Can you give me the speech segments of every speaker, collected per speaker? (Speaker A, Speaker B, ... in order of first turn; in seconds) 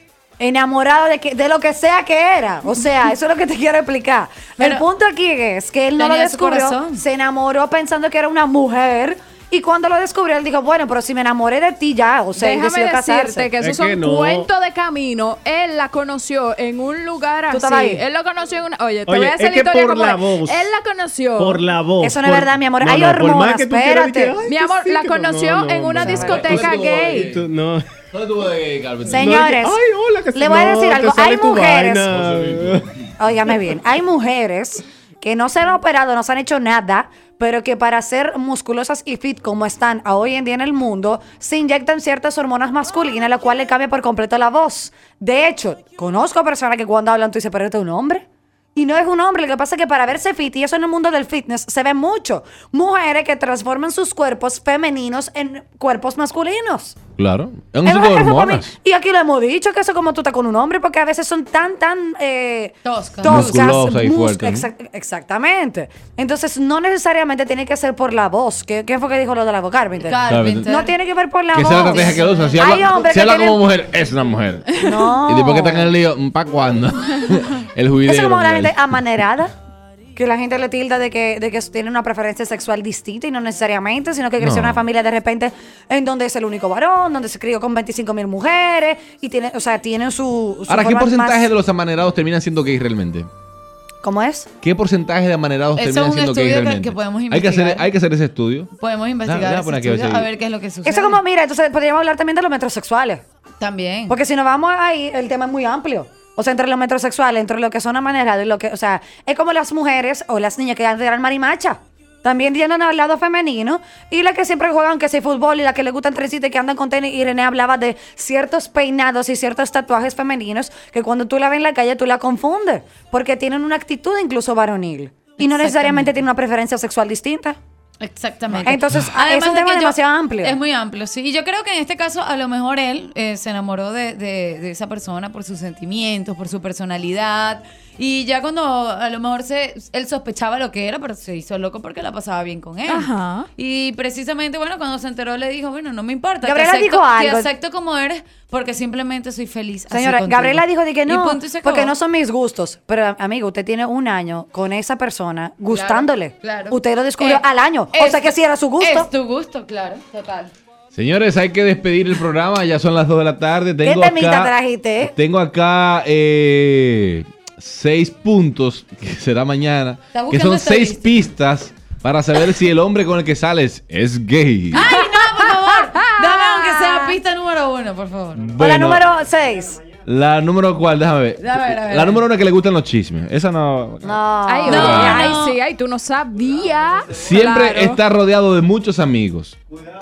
Speaker A: 0.4-13.5, 17.5-18.0, 22.0-24.4, 26.0-26.6, 29.1-29.8, 30.3-32.1, 33.2-57.0, 57.9-73.6, 74.8-75.9, 78.0-79.5, 80.1-91.5, 94.0-94.5, 100.8-103.2, 104.1-127.6, 128.6-130.6, 146.4-147.5, 149.9-159.1, 163.8-165.1, 176.1-177.2, 178.6-179.8, 184.0-185.3
Speaker B: 4.6-4.8, 6.0-7.0, 62.9-63.7, 70.0-70.9, 71.6-72.8, 95.8-97.9, 98.8-101.2, 103.6-104.2, 125.4-126.2, 128.0-151.9, 155.7-160.5, 170.1-171.3, 174.7-178.4, 181.4-182.2, 184.7-185.6
Speaker C: 12.3-21.6, 24.4-27.3, 142.9-143.5, 184.5-188.0
Speaker D: 13.6-14.5, 19.1-20.6, 21.4-26.7, 27.3-27.9, 29.2-32.9
Speaker E: 26.2-27.5, 28.1-29.4, 32.1-33.0, 57.2-58.7, 63.2-64.7, 70.3-70.7, 71.5-74.7, 75.2-78.9, 84.4-84.8, 90.7-93.3, 94.6-98.7, 99.2-100.3, 160.9-174.9, 178.4-179.1, 180.0-185.3, 187.1-189.6